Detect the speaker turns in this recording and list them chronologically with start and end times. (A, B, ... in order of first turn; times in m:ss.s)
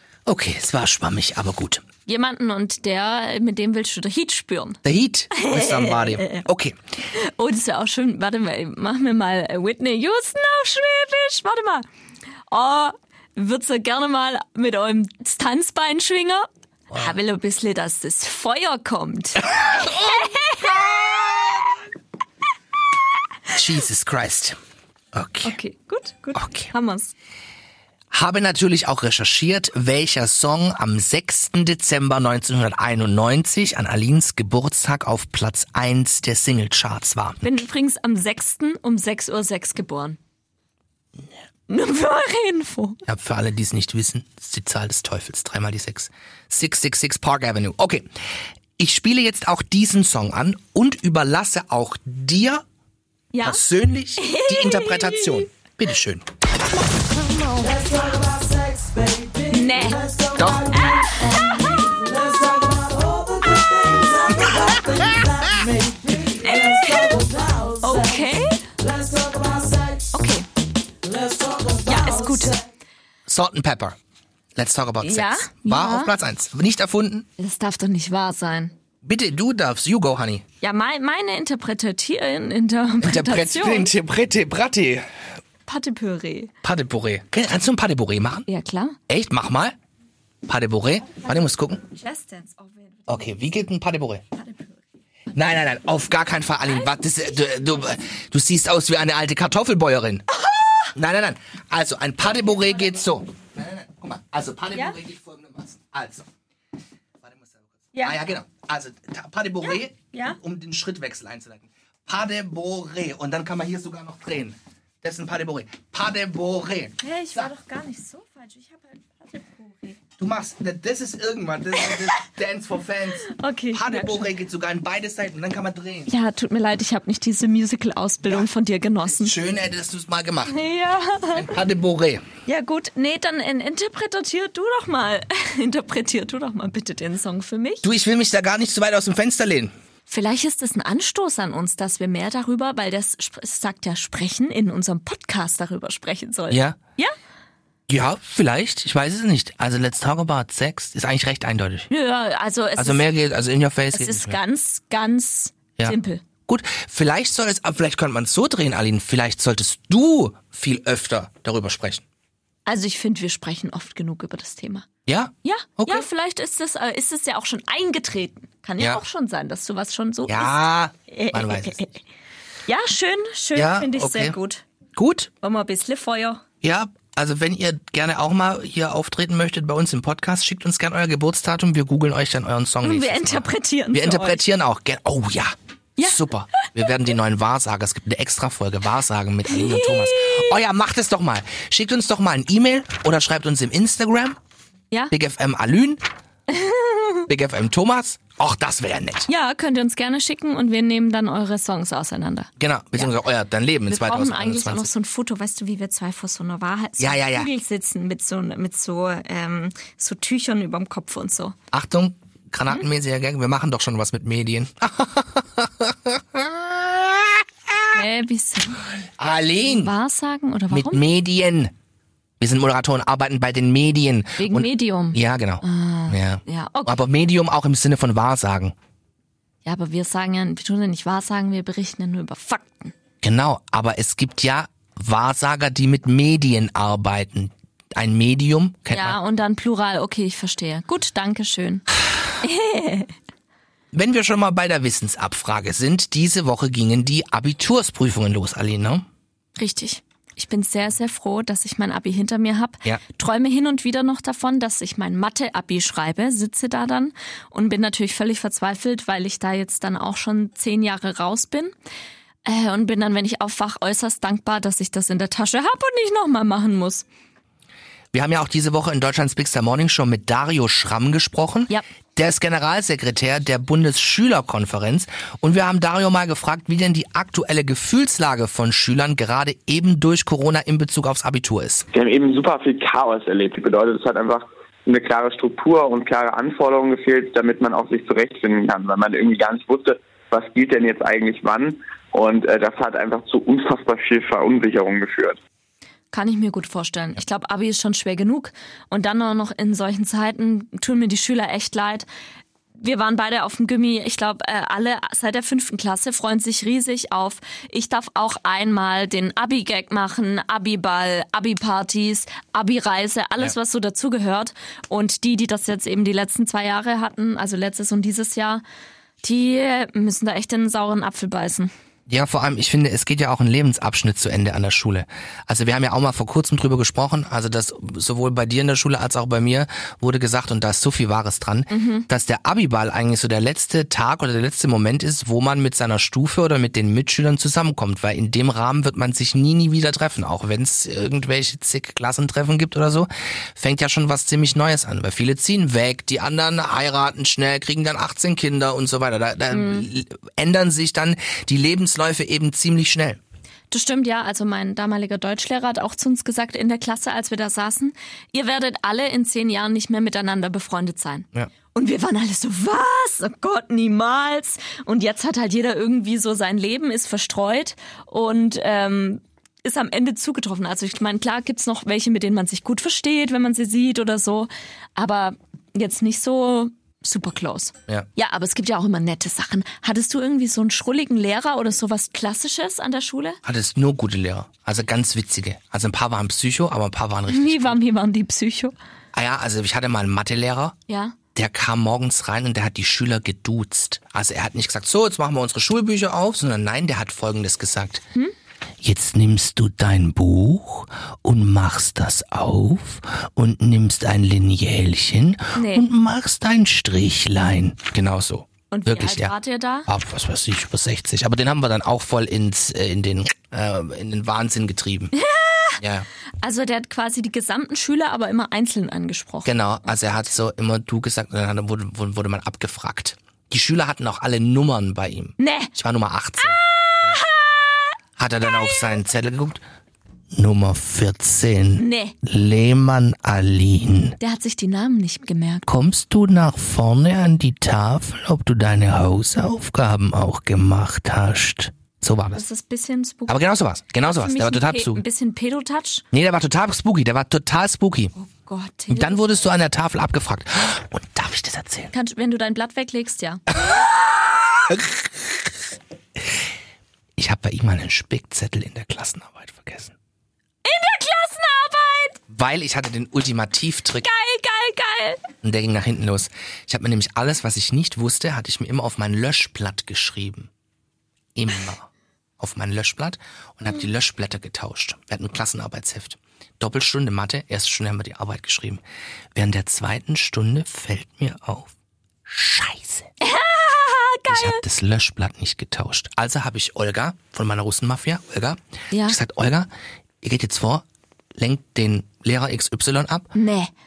0:00.2-0:01.8 A
0:02.0-0:04.8 B
0:04.8-0:06.8 A
0:05.3-0:06.4 B
0:07.1-0:11.9 B
0:12.5-0:20.8 B
0:19.5-0:21.6 A
0:23.5-0:24.6 A
0:25.1-0:25.5 A
0:25.4-0:27.1 B
0:26.3-0:26.7 A
0:28.1-0:37.5 A
0:37.4-0:40.2 B
0:41.7-0:43.0 B
0:43.0-0:48.1 A
0:48.8-0:52.6 A
0:53.3-0:53.6 B
0:53.4-0:56.3 A
0:54.2-0:55.4 B
0:57.1-0:58.4 B
0:59.4-1:05.0 B
1:00.3-1:00.8 A
1:04.8-1:05.6 A
1:06.0-1:08.7 B
1:10.0-1:10.4 B
1:11.7-1:12.6 B
1:13.2-1:14.0 A
1:14.6-1:17.3 A
1:15.0-1:16.1 B
1:17.4-1:18.7 B
1:19.0-1:20.4 A
1:20.6-1:23.9 B
1:23.0-1:25.0 A
1:25.6-1:26.5 B
1:26.6-1:28.5 A
1:28.5-1:29.0 B
1:29.1-1:29.8 A
1:30.4-1:31.8 A
1:31.8-1:33.4 B
1:33.1-1:34.2 A
1:34.3-1:34.8 B
1:35.3-1:40.3 A
1:36.7-1:36.9 B
1:40.3-1:40.9 B
1:40.9-1:46.3 A
1:47.2-1:57.5 A
1:50.1-1:50.4 B
1:57.0-2:00.0 B
2:00.2-2:06.1 A
2:03.2-2:04.3 B
2:06.1-2:09.4 B
2:09.0-2:10.6 A
2:10.4-2:11.5 B
2:11.3-2:12.2 A
2:12.4-2:17.8 B
2:17.8-2:19.7 A
2:20.1-2:27.1 B
2:26.5-2:26.8 A
2:27.9-2:31.9 A
2:31.9-2:33.0 B
2:32.8-2:34.4 A
2:33.9-2:36.2 B
2:35.8-2:42.0 A
2:42.6-2:44.9 B
2:45.0-2:46.1 A
2:45.4-2:50.6 B
2:50.3-2:51.9 A
2:51.1-2:52.0 B
2:52.7-2:54.6 B
2:53.5-2:54.4 A
2:54.9-2:55.3 A
2:55.4-2:56.4 B
2:56.6-3:14.4 A
3:02.8-3:04.4 B
3:06.0-3:06.2 B
3:09.5-3:10.5 B
3:15.1-3:16.0 A
3:16.5-3:17.2 B
3:17.3-3:19.3 A
3:19.3-3:23.1 B
3:22.6-3:24.9 A
3:23.9-3:31.6 B
3:27.0-3:27.5 A
3:31.7-3:37.9 A
3:37.9-3:38.9 B
3:39.2-3:39.9 A
3:39.6-3:41.0 B
3:40.7-3:41.7 A
3:42.4-3:48.7 A
3:44.4-3:47.0 B
3:49.6-3:52.9 B
3:53.2-3:59.2 A
3:58.9-4:01.8 B
4:02.4-4:03.1 B
4:03.9-4:09.0 A
4:09.6-4:21.7 B
4:22.4-4:27.0 B
4:28.1-4:41.8 A
4:41.9-4:55.4 C
4:56.1-5:02.0 B
5:02.8-5:18.6 B
5:19.2-5:21.7 B
5:22.1-5:53.2 A
5:31.7-5:32.1 B
5:49.5-5:49.9 B
5:53.7-6:23.4 B
6:23.4-6:27.8 A
6:27.3-6:28.7 B
6:29.1-6:30.8 A
6:30.9-6:31.2 B
6:31.3-6:38.0 A
6:38.8-6:49.3 A
6:45.5-6:45.8 B
6:48.7-6:49.9 B
6:49.9-6:55.1 A
6:55.2-6:55.8 B
6:55.8-6:56.1 A
6:56.4-6:59.5 B
6:59.4-7:07.2 A
7:05.4-7:05.7 B
7:06.8-7:07.9 B
7:08.2-7:09.6 A
7:10.3-7:14.2 A
7:11.8-7:12.2 B
7:14.2-7:15.6 B
7:15.7-7:22.4 A
7:22.3-7:23.4 B
7:23.3-7:25.0 A
7:24.0-7:26.0 B
7:26.1-7:28.1 A
7:28.2-7:29.5 B
7:28.9-7:31.9 A
7:31.9-7:33.4 B
7:34.7-7:35.5 A
7:37.2-7:39.9 A
7:40.6-7:42.2 B
7:42.3-7:44.1 A
7:44.0-7:45.2 B
7:45.4-7:50.5 A
7:51.3-7:58.8 A
7:59.3-8:01.7 A
8:02.2-8:03.1 A
8:03.2-8:04.6 B
8:04.3-8:09.7 A
8:08.9-8:09.2 B
8:10.2-8:10.8 A
8:11.4-8:13.3 A
8:13.3-8:13.7 B